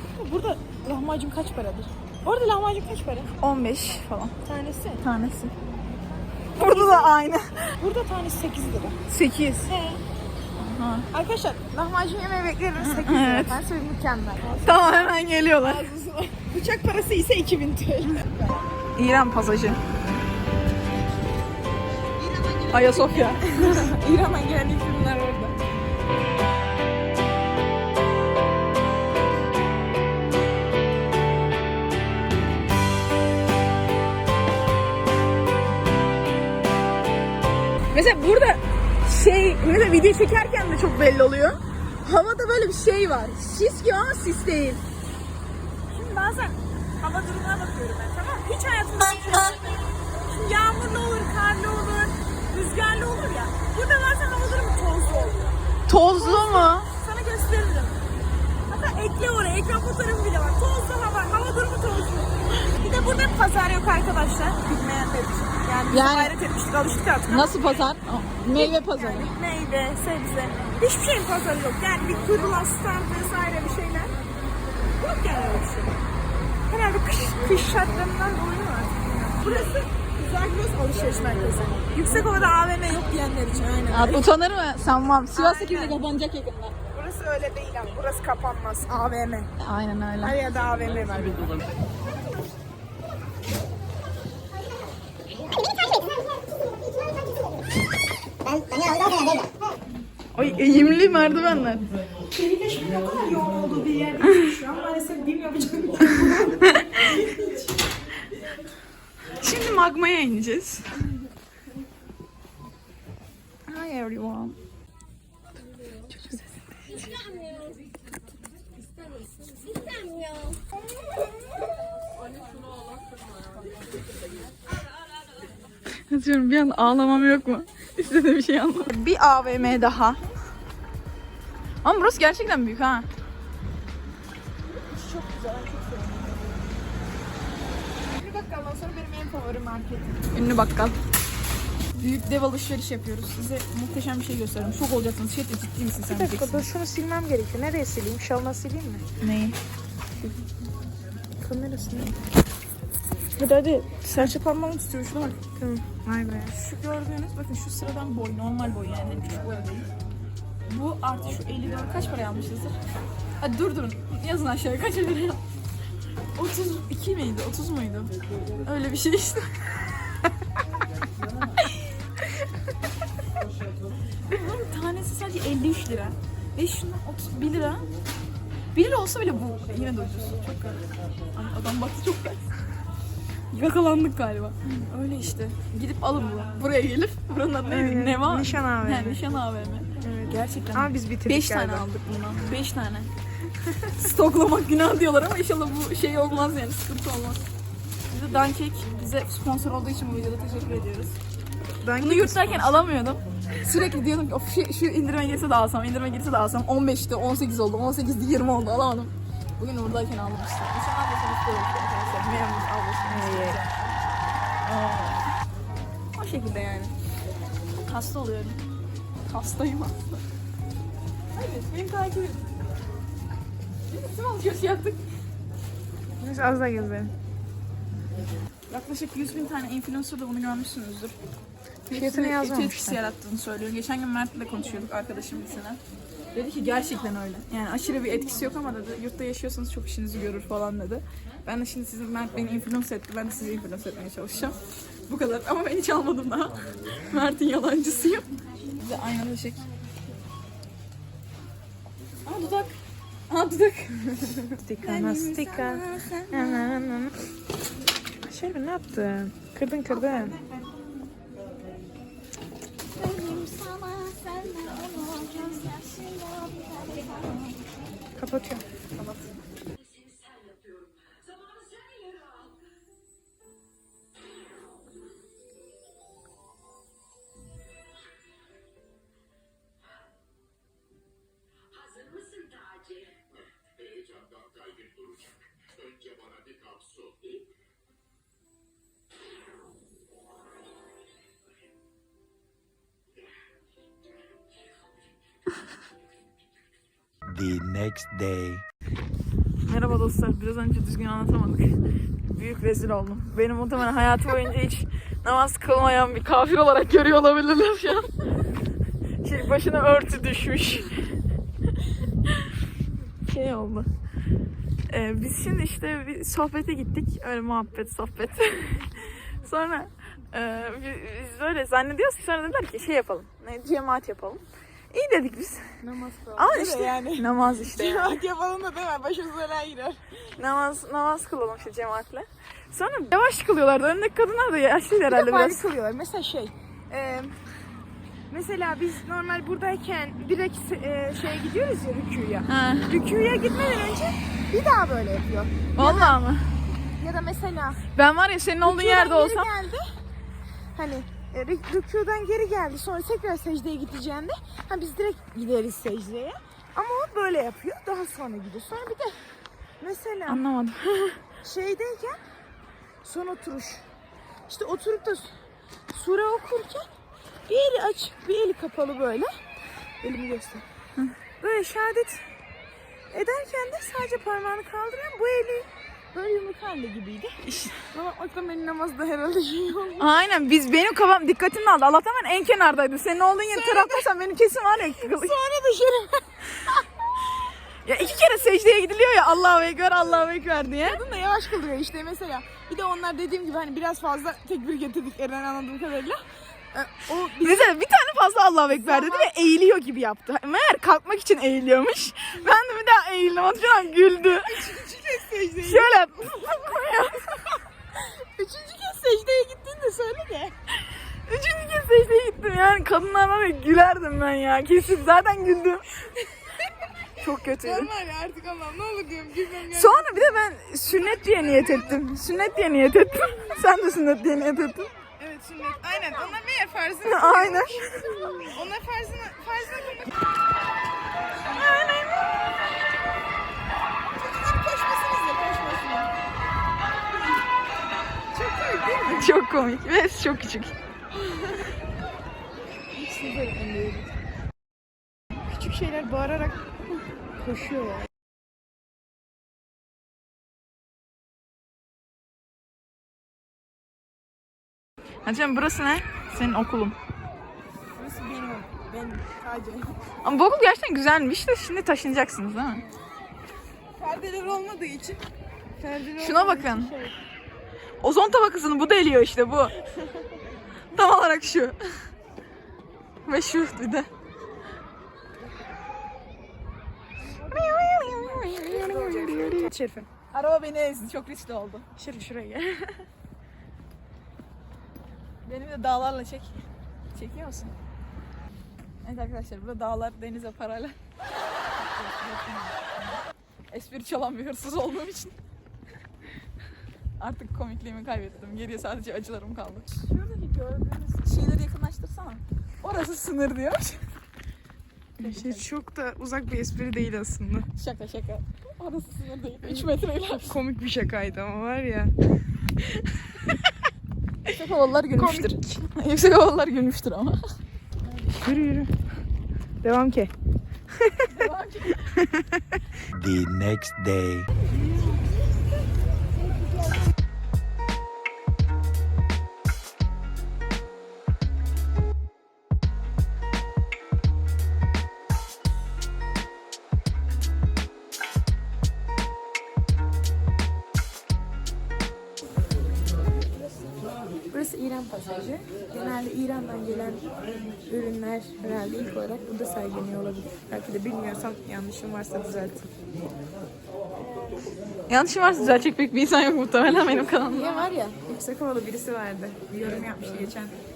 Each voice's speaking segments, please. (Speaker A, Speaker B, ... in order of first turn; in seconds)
Speaker A: 0.1-3.3, 4.4-5.0, 6.6-7.2, 7.8-9.0, 9.7-10.0, 11.1-18.7, 22.2-25.6, 42.0-42.8, 45.9-58.0, 58.7-67.6, 68.5-74.1, 75.0-75.9, 76.7-84.3, 85.3-86.0, 86.9-89.5, 90.2-91.6, 98.5-99.4, 102.3-107.6, 119.8-120.5, 129.6-130.3, 134.7-136.6, 138.0-140.2, 146.1-149.0, 151.4-152.1, 154.1-154.5, 155.6-156.6, 187.6-189.2, 190.0-191.8, 201.8-202.8, 213.1-213.6, 226.2-227.1, 231.9-233.0, 254.6-256.8, 258.2-260.4, 268.2-268.6, 325.8-330.0, 335.1-337.4, 338.3-346.2, 346.8-347.8, 348.6-349.8, 350.7-359.2, 359.8-360.4, 361.4-362.2, 363.0-363.8, 364.5-365.3, 365.9-366.9, 367.5-369.3, 370.0-370.6, 371.4-372.2, 373.1-377.3, 377.9-380.1, 383.5-384.1, 384.7-386.7, 390.8-396.2, 396.7-397.7, 398.7-399.3, 404.4-405.9, 407.9-410.5, 417.6-420.4, 420.9-422.0, 425.2-430.1, 434.1-436.1, 438.3-439.3, 442.8-444.1, 445.5-446.6, 447.4-448.1, 457.9-460.0, 464.0-465.2, 465.8-467.2, 477.4-480.1, 481.9-483.0, 505.2-507.7, 509.6-509.9, 510.4-512.1, 515.1-515.8, 518.3-518.9, 519.8-520.3, 521.0-521.3, 522.1-522.6, 544.5-547.3, 547.8-552.9, 554.2-554.7, 557.5-560.8
Speaker B: 3.4-4.3, 5.0-5.5, 6.5-7.7, 9.1-9.7, 10.6-11.1, 12.8-13.6, 14.6-15.9, 18.9-19.8, 22.7-23.5, 37.9-41.6, 42.3-44.8, 49.1-49.6, 55.9-56.9, 65.9-66.3, 67.3-69.3, 79.4-79.7, 83.9-86.7, 89.6-90.4, 100.3-101.9, 109.4-110.8, 113.7-114.6, 126.1-130.2, 131.8-133.1, 140.3-140.9, 141.9-146.7, 149.2-149.6, 153.4-155.4, 156.5-159.7, 160.7-162.8, 163.4-165.4, 166.3-168.1, 168.6-169.7, 174.3-177.8, 178.7-180.7, 181.3-182.5, 183.5-189.9, 190.6-193.1, 193.9-197.5, 198.1-201.2, 202.0-213.7, 214.6-215.2, 216.1-216.9, 217.8-218.6, 219.2-220.2, 221.3-222.5, 223.9-225.0, 228.7-231.2, 231.9-235.8, 236.3-248.3, 248.8-249.7, 252.2-252.7, 253.3-257.1, 259.9-260.4, 262.9-267.6, 299.7-301.7, 302.3-308.1, 309.2-310.9, 313.3-313.9, 314.9-325.6, 326.4-328.2, 330.4-335.6, 342.5-342.9, 345.8-346.5, 347.9-349.5, 360.2-361.2, 377.4-377.8, 380.0-385.4, 387.8-391.0, 397.4-404.5, 405.6-407.6, 411.2-415.9, 417.2-417.9, 419.7-424.9, 427.0-427.9, 431.5-432.2, 439.1-440.7, 455.2-456.9, 460.2-462.8, 466.2-466.9, 468.0-469.7, 470.9-471.8, 473.2-474.1, 477.5-479.7, 480.3-481.9, 485.4-486.5, 487.1-487.7, 489.0-490.9, 491.8-493.2, 493.7-495.3, 497.2-504.0, 505.2-505.7, 507.8-510.6, 514.5-517.4, 521.2-522.0, 555.1-557.8
Speaker C: 297.2-298.6, 523.1-524.5